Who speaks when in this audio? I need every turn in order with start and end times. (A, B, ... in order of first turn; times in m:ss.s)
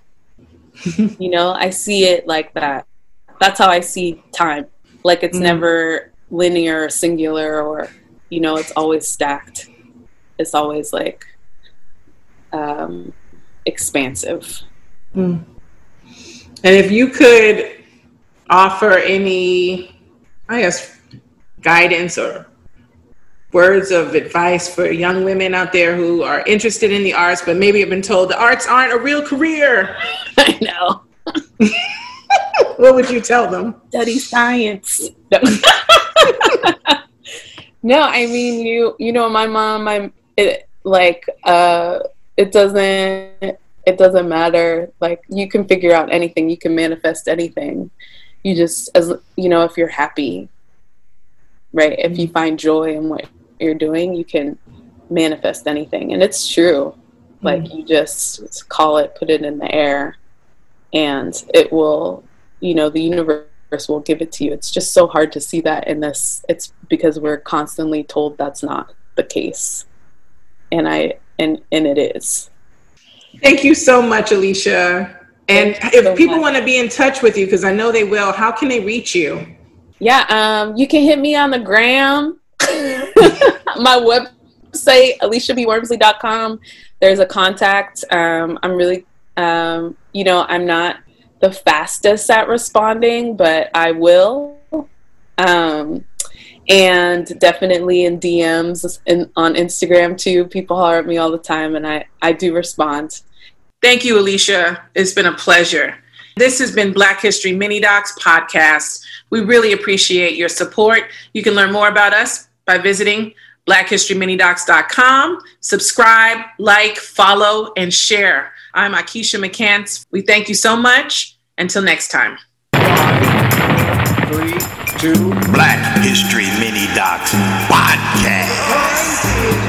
0:01.2-0:02.8 A
0:03.4-0:09.7 A
0:05.3-0:05.6 B
0:10.4-0:11.3 A
0:12.5-0:13.1 A
0:13.7-0:14.6 A
0:15.2-0:15.4 B
0:16.6-0:17.7 B
0:18.5-0:19.9 B
0:20.5-0:20.9 B
0:21.6-0:22.5 B
0:23.5-0:30.0 B
0:30.4-0:31.0 A
0:32.8-0:33.8 B
0:33.9-0:37.0 A
0:37.8-0:47.9 A
0:48.4-0:50.5 A
0:51.7-0:54.6 A
0:55.1-1:00.2 A
0:57.4-0:57.7 B
1:00.9-1:09.8 A
1:10.7-1:12.5 A
1:13.4-1:19.4 B
1:15.5-1:16.5 A
1:20.0-1:34.8 A
1:35.4-1:36.0 A
1:36.7-1:43.2 A
1:43.8-2:02.4 B
2:05.4-2:09.3 C